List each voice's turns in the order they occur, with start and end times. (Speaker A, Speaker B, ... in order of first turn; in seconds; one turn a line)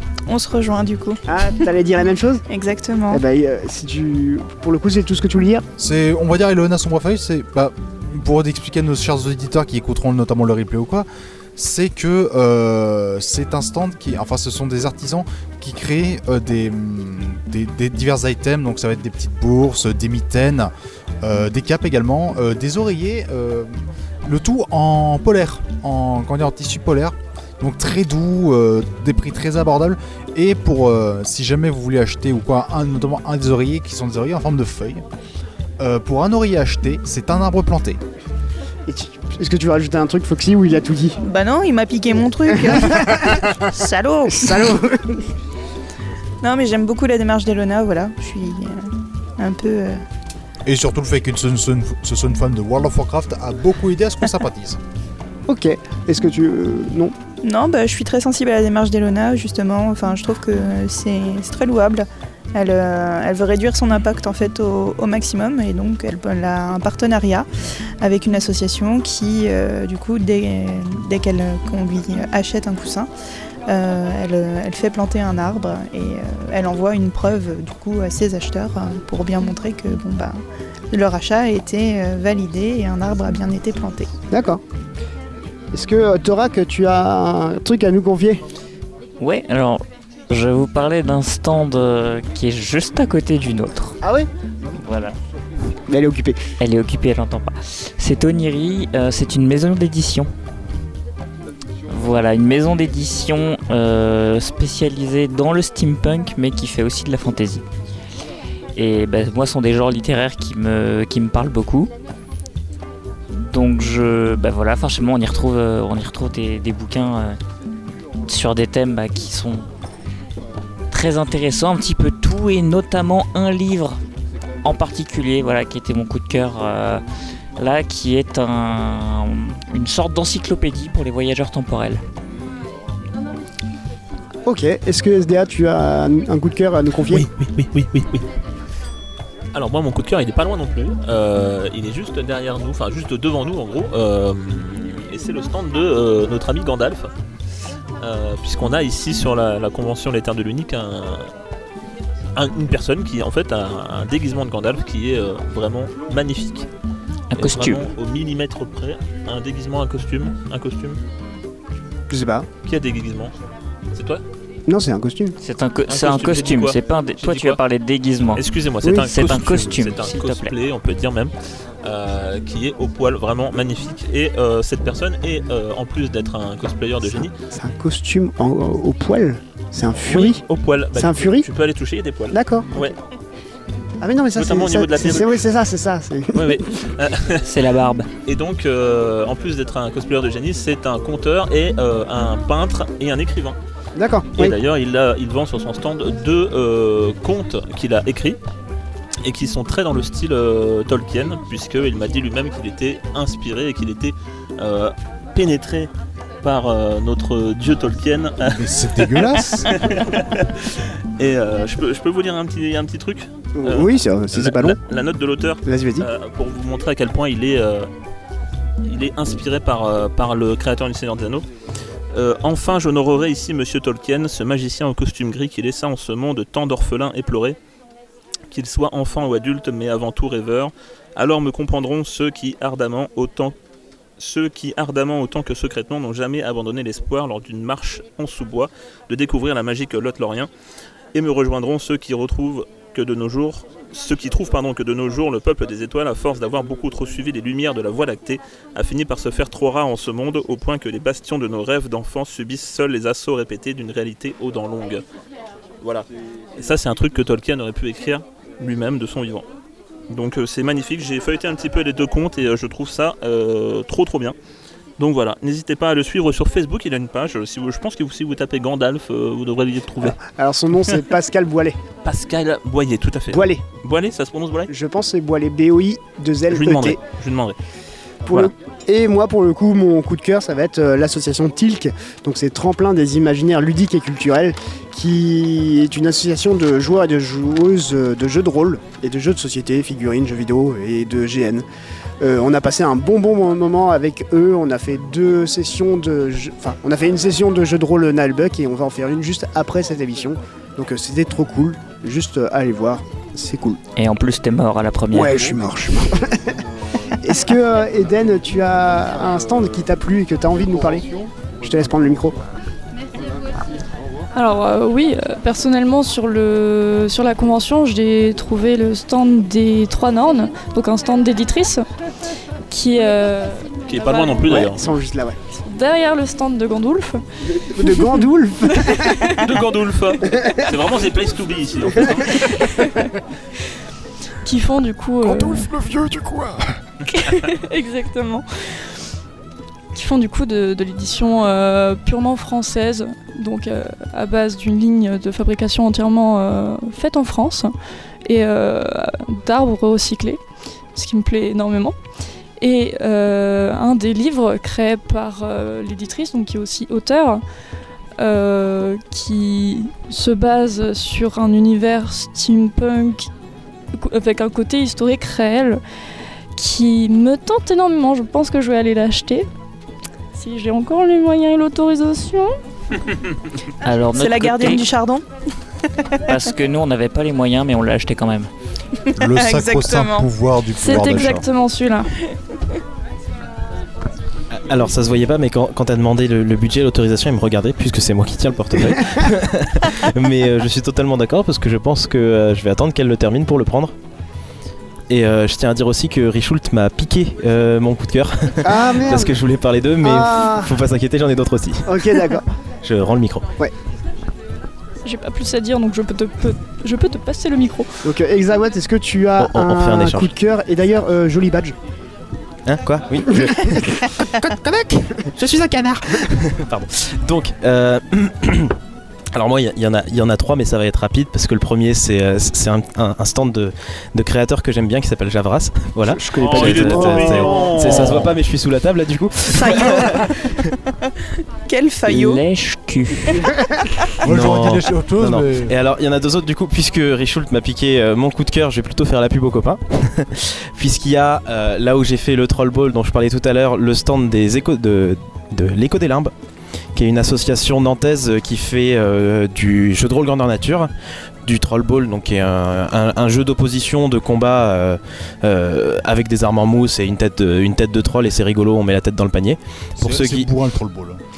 Speaker A: 0.3-1.2
Speaker B: 1.3-2.4
Speaker A: 2.5-3.2
Speaker B: 3.1-5.7
Speaker C: 5.8-20.7
Speaker C: 21.2-23.7
Speaker C: 24.2-35.0
Speaker C: 35.8-38.0
Speaker B: 38.9-41.2
Speaker A: 41.2-44.7
Speaker B: 42.7-43.4
Speaker B: 44.3-45.3
Speaker A: 46.4-48.8
Speaker A: 49.4-50.0
Speaker C: 50.7-54.8
Speaker B: 55.5-57.1
Speaker A: 57.4-67.5
Speaker A: 68.0-73.1
Speaker A: 73.7-80.4
Speaker A: 80.9-84.1
Speaker B: 84.3-84.6
Speaker B: 85.7-88.4
Speaker D: 89.2-94.0
Speaker B: 94.0-94.3
Speaker D: 94.7-95.2
Speaker B: 95.9-96.4
Speaker D: 96.6-100.3
Speaker D: 101.9-107.7
Speaker D: 108.8-111.9
Speaker D: 113.3-117.4
Speaker D: 118.3-119.7
Speaker D: 120.9-124.0
Speaker D: 124.6-127.0
Speaker D: 127.6-132.0
Speaker B: 134.5-137.3
Speaker E: 137.1-138.2
Speaker E: 139.5-147.1
Speaker E: 148.0-151.3
Speaker E: 152.3-156.7
Speaker D: 157.3-157.9
Speaker E: 157.4-161.0
Speaker B: 162.1-162.5
Speaker E: 162.7-163.3
Speaker E: 163.9-164.2
Speaker B: 164.7-165.4
Speaker D: 165.4-168.4
Speaker E: 165.9-167.6
Speaker E: 168.3-171.3
Speaker D: 169.0-170.5
Speaker E: 171.8-177.3
Speaker B: 177.1-180.4
Speaker E: 180.0-183.0
Speaker B: 180.9-181.5
Speaker B: 182.3-182.8
Speaker B: 184.0-186.6
Speaker E: 184.3-185.4
Speaker E: 186.3-187.5
Speaker D: 187.4-188.1
Speaker E: 188.2-193.6
Speaker B: 194.0-194.6
Speaker E: 194.4-198.4
Speaker E: 199.2-205.9
Speaker E: 206.4-217.9
Speaker C: 208.4-209.8
Speaker B: 213.6-214.8
Speaker B: 215.7-216.1
Speaker E: 218.8-221.5
Speaker E: 222.1-227.6
Speaker E: 228.5-233.6
Speaker E: 234.2-240.5
Speaker E: 241.1-255.0
Speaker E: 255.8-256.1
Speaker E: 256.6-259.5
Speaker E: 260.1-264.4
Speaker E: 265.0-270.2
Speaker B: 270.0-271.8
Speaker E: 272.0-274.7
Speaker B: 273.3-273.6
Speaker B: 274.7-277.0
Speaker E: 276.5-277.6
Speaker B: 278.2-291.6
Speaker B: 292.2-303.8
Speaker D: 304.0-305.6
Speaker B: 305.1-306.6
Speaker B: 307.2-312.4
Speaker F: 314.3-321.8
Speaker F: 322.7-324.4
Speaker E: 323.9-324.8
Speaker B: 324.4-325.4
Speaker F: 325.6-327.2
Speaker B: 327.6-329.4
Speaker F: 327.8-328.2
Speaker E: 329.4-332.6
Speaker B: 330.3-330.6
Speaker F: 332.6-333.1
Speaker F: 334.4-335.7
Speaker B: 335.4-336.4
Speaker F: 337.1-338.4
Speaker F: 339.9-347.7
Speaker F: 348.3-350.4
Speaker F: 350.9-352.0
Speaker F: 352.6-357.4
Speaker F: 358.2-363.3
Speaker F: 363.9-365.8
Speaker F: 366.6-369.5
Speaker F: 370.3-372.6
Speaker D: 373.8-374.9
Speaker A: 374.1-375.2
Speaker D: 376.3-378.5
Speaker A: 379.1-380.3
Speaker C: 379.2-381.4
Speaker F: 380.8-382.1
Speaker G: 384.5-393.9
Speaker G: 395.1-403.5
Speaker B: 398.6-399.4
Speaker B: 400.0-400.8
Speaker B: 401.9-402.5
Speaker F: 405.0-408.1
Speaker B: 408.0-411.8
Speaker G: 409.4-410.3
Speaker G: 412.7-418.8
Speaker B: 413.3-414.1
Speaker G: 419.3-430.5
Speaker B: 426.1-428.1
Speaker E: 426.4-428.4
Speaker A: 429.5-430.5
Speaker A: 431.7-432.4
Speaker D: 432.1-433.5
Speaker C: 434.2-435.7
Speaker G: 434.2-446.3
Speaker G: 447.0-450.9
Speaker G: 451.4-460.5
Speaker C: 460.0-461.2